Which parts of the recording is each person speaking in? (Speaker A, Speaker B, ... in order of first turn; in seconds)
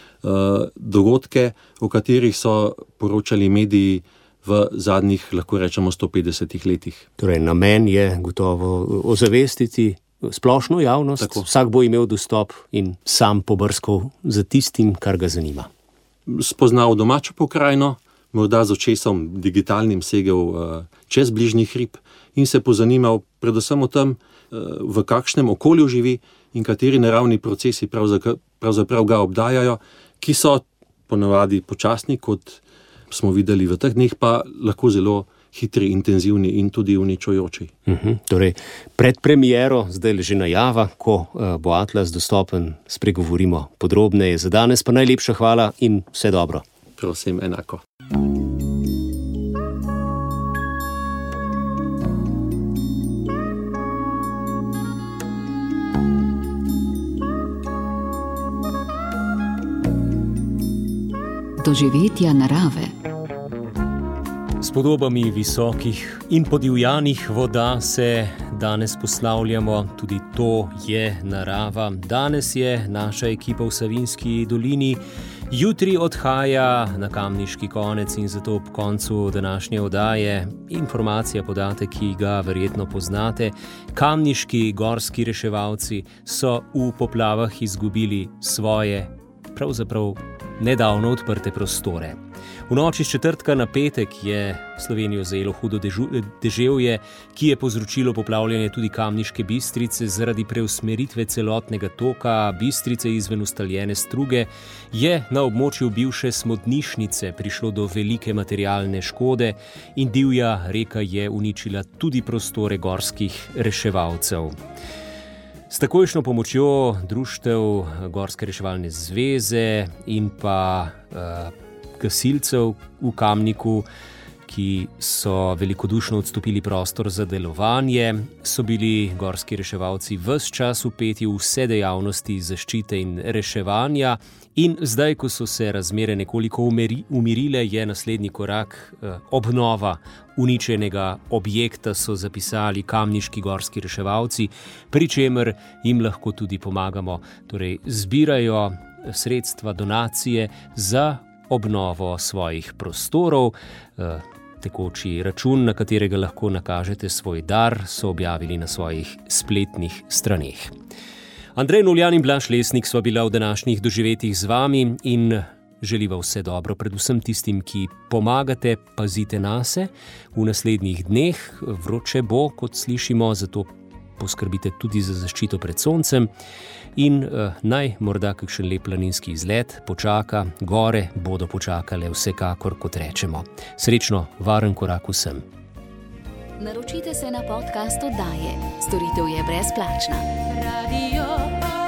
Speaker A: 0.2-7.0, 11.2-11.4, 16.3-37.7, 47.0-47.8
Speaker B: 7.2-15.7, 37.9-46.6, 64.6-114.6, 115.7-123.9, 124.5-160.7, 161.6-176.3, 176.9-185.4
Speaker C: 61.6-62.9, 186.6-191.5